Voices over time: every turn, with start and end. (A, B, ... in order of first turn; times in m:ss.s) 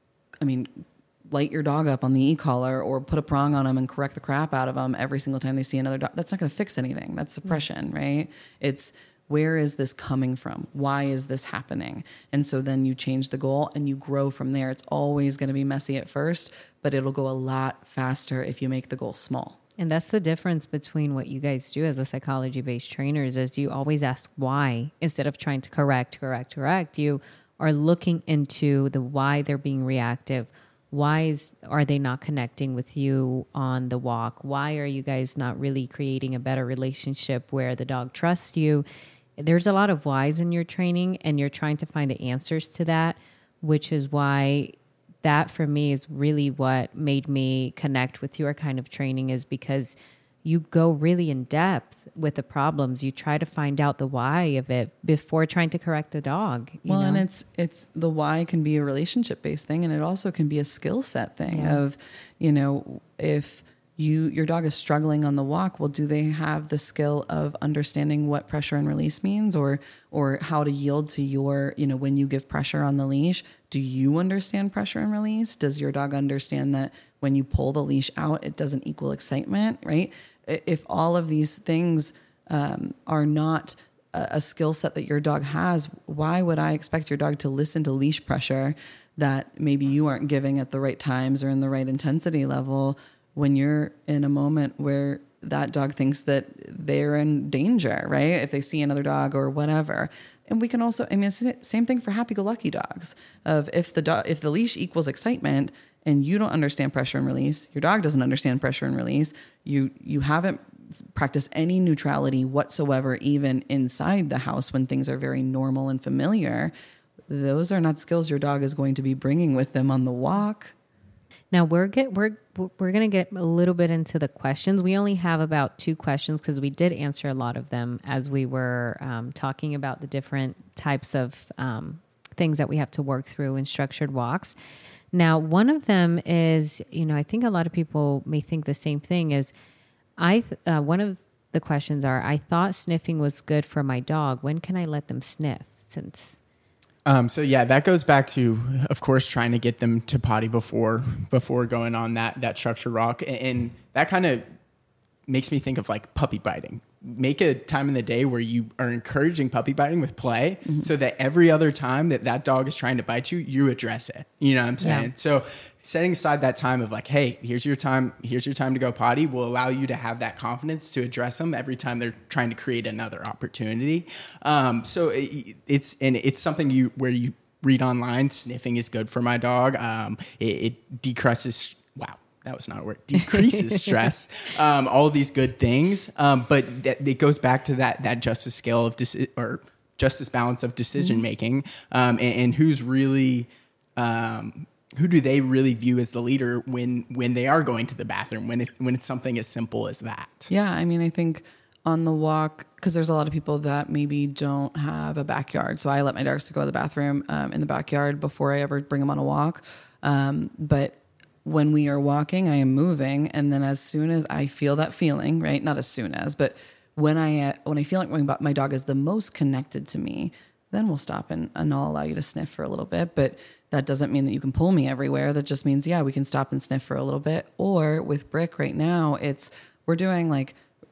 0:00.4-0:19.6 A
0:19.8-0:38.8 B
0:39.4-0:57.2 B
0:56.9-1:56.7 A
1:01.5-1:01.8 B
1:57.3-2:00.7 A
2:01.5-2:14.6 B
2:15.1-2:19.5 B
2:20.2-2:26.4 B
2:27.0-2:34.4 C
2:35.3-3:20.5 C
2:44.8-2:45.1 B
3:20.5-3:50.6 A